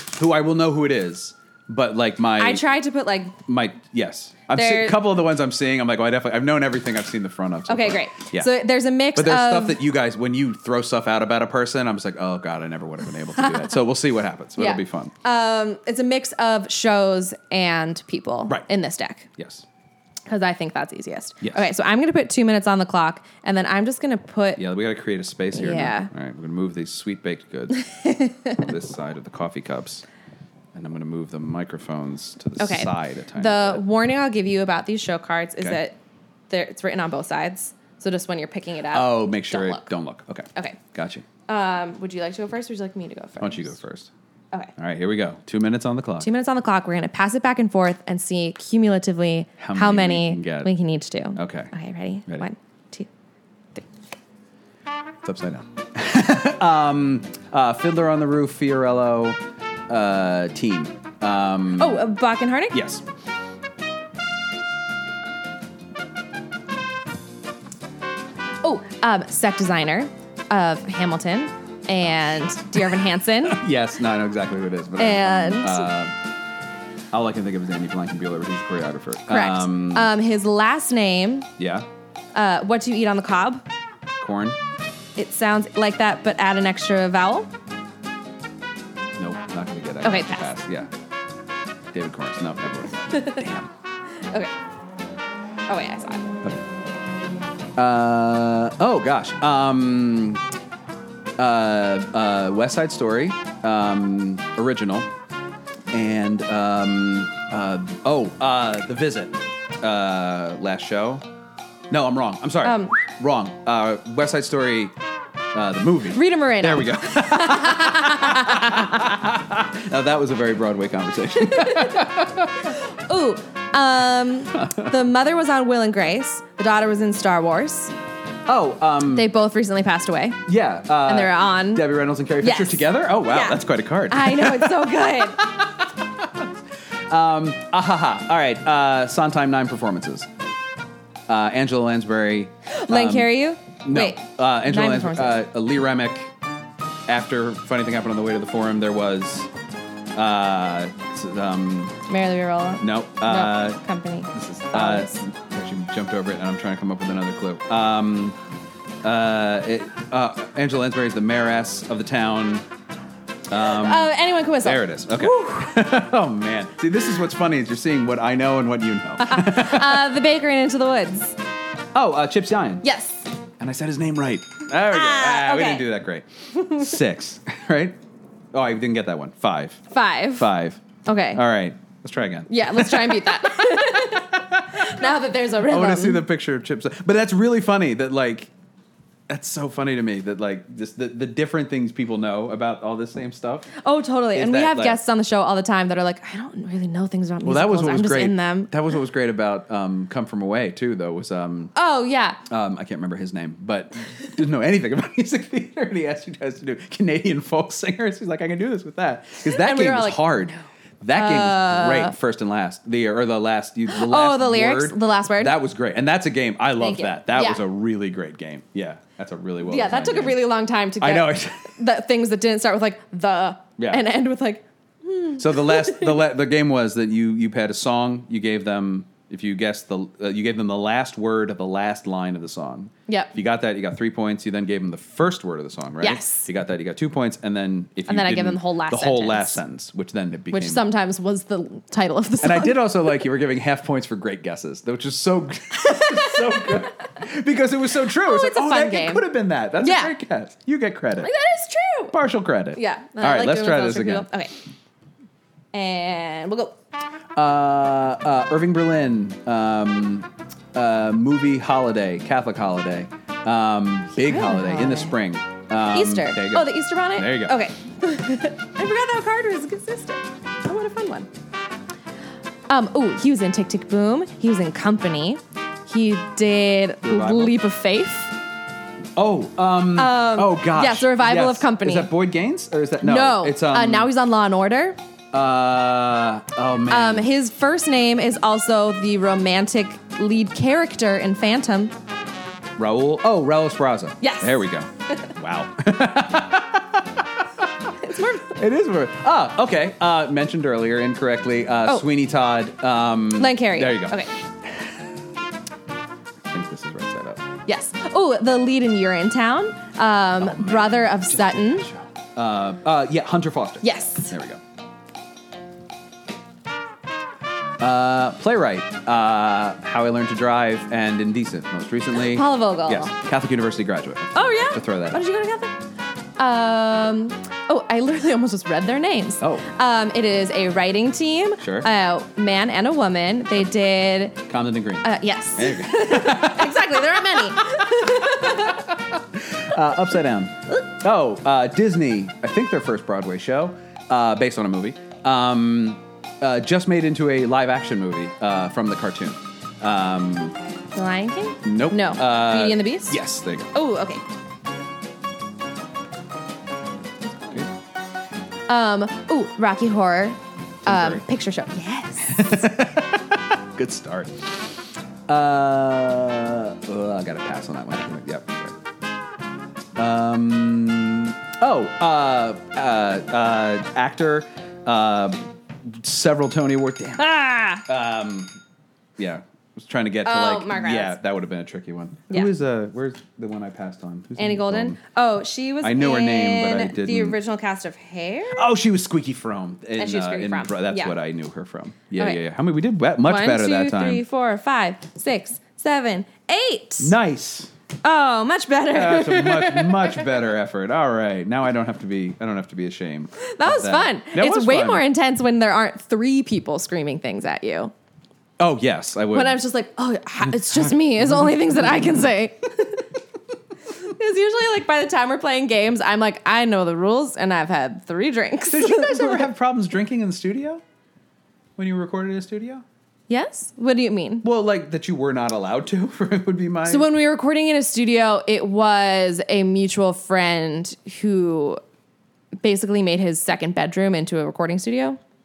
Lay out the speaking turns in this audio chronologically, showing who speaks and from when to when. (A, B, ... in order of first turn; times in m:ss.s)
0:00.1-0:02.7 A
0:02.4-0:03.4 B
0:03.5-0:08.6 A
0:04.5-0:05.0 B
0:07.7-0:09.8 B
0:09.1-0:15.1 A
0:14.6-0:19.3 B
0:19.4-0:19.6 A
0:20.3-0:24.6 B
0:21.4-0:21.7 A
0:24.6-0:27.9 A
0:25.5-0:26.1 B
0:27.9-0:28.5 B
0:28.4-0:30.0 A
0:30.8-0:33.8 A
0:32.6-0:36.0 B
0:36.5-0:39.9 B
0:38.9-0:41.2 A
0:41.5-0:43.8 B
0:43.4-0:44.1 A
0:44.8-0:46.3 A
0:46.2-0:53.1 B
0:49.6-0:50.7 A
0:51.3-0:51.7 A
0:55.2-1:02.1 A
1:01.8-1:02.8 B
1:02.7-1:03.0 A
1:08.6-1:13.6 B
1:13.6-1:16.2 A
1:15.0-1:15.9 B
1:17.1-1:20.1 A
1:19.3-1:21.5 B
1:21.6-1:21.9 A
1:22.4-1:23.6 B
1:24.2-1:24.6 A
1:25.2-1:27.5 B
1:29.2-1:30.9 A
1:30.0-1:30.5 B
1:31.9-1:33.7 A
1:33.1-1:33.4 B
1:35.7-1:36.3 B
1:37.8-1:40.4 A
1:41.4-1:45.1 A
1:45.9-1:51.3 A
1:51.9-1:55.0 A
1:52.6-1:53.0 B
1:55.5-2:02.5 A
1:56.1-1:58.9 B
2:01.5-2:02.1 B
2:02.8-2:07.9 B
2:08.5-2:09.3 A
2:09.1-2:10.4 B
2:10.5-2:16.4 A
2:11.0-2:13.6 B
2:14.1-2:15.4 B
2:17.1-2:20.3 A
2:21.3-2:23.3 A
2:22.7-2:25.4 B
2:23.8-2:26.3 A
2:27.1-2:29.5 A
2:30.1-2:32.0 A
2:32.1-2:35.2 B
2:32.8-2:33.8 A
2:34.3-2:38.4 A
2:39.0-2:42.6 A
2:43.5-2:50.2 A
2:43.6-2:45.6 B
2:49.2-2:51.4 B
2:52.0-2:52.8 A
2:52.8-2:53.3 B
2:53.6-2:58.0 A
2:54.9-2:55.9 B
2:56.5-2:56.8 B
2:58.5-3:04.6 A
2:59.9-3:00.5 B
3:01.0-3:01.4 B
3:02.5-3:06.2 B
3:05.6-3:08.5 A
3:09.3-3:13.7 A
3:13.8-3:18.8 B
3:14.3-3:15.0 A
3:17.4-3:21.7 A
3:21.8-3:22.4 B
3:22.5-3:41.8 A
3:29.5-3:30.6 B
3:31.1-3:32.2 B
3:33.9-3:35.6 B
3:36.8-3:37.6 B
3:39.7-3:46.2 B
3:43.8-3:44.1 A
3:45.4-4:00.9 A
3:53.1-3:53.3 B
3:56.0-3:56.5 B
3:58.1-3:59.6 B
4:00.5-4:02.9 B
4:02.4-4:11.3 A
4:08.2-4:09.3 B
4:09.8-4:10.1 B
4:11.2-4:12.2 B
4:12.1-4:14.3 A
4:12.7-4:14.5 B
4:15.7-4:16.8 B
4:17.4-4:27.6 A
4:24.2-4:25.2 B
4:25.9-4:31.3 B
4:32.7-4:38.3 B
4:37.0-4:37.6 A
4:39.2-4:44.1 A
4:40.0-4:42.1 B
4:43.0-4:45.0 B
4:45.3-4:47.3 A
4:46.9-4:51.9 B
4:52.8-4:57.3 A
4:54.2-4:54.6 B
4:58.0-4:58.6 B
4:58.5-5:04.2 A
5:03.4-5:04.3 B
5:06.5-5:07.4 A
5:07.7-5:11.9 B
5:10.4-5:14.6 A
5:13.8-5:14.4 B
5:17.8-5:25.2 A
5:22.2-5:23.1 B
5:24.3-5:25.8 B
5:26.4-5:34.5 B
5:29.4-5:29.7 A
5:31.6-5:31.9 A
5:34.5-5:50.5 A
5:35.0-5:38.8 B
5:50.9-5:53.2 B
5:51.6-5:53.7 A
5:53.7-5:54.2 B
5:57.4-5:57.7 A
5:58.7-6:02.5 B
6:00.8-6:01.2 A
6:02.2-6:04.6 A
6:05.3-6:08.8 A
6:10.0-6:18.6 A
6:17.2-6:17.8 B
6:19.2-6:25.0 A
6:20.2-6:21.2 B
6:24.4-6:28.6 B
6:25.8-6:27.4 A
6:28.5-6:34.2 A
6:30.0-6:31.2 B
6:33.2-6:37.1 B
6:37.0-6:37.7 A
6:38.0-6:40.3 B
6:38.9-6:45.0 A
6:43.4-6:47.9 B
6:48.6-6:49.6 A
6:49.3-6:53.0 B
6:50.5-6:52.3 A
6:54.1-6:59.4 B
6:58.7-7:00.8 A
7:01.8-7:02.8 A
7:03.3-7:04.4 B
7:04.4-7:07.1 A
7:06.8-7:11.8 B
7:12.6-7:15.2 B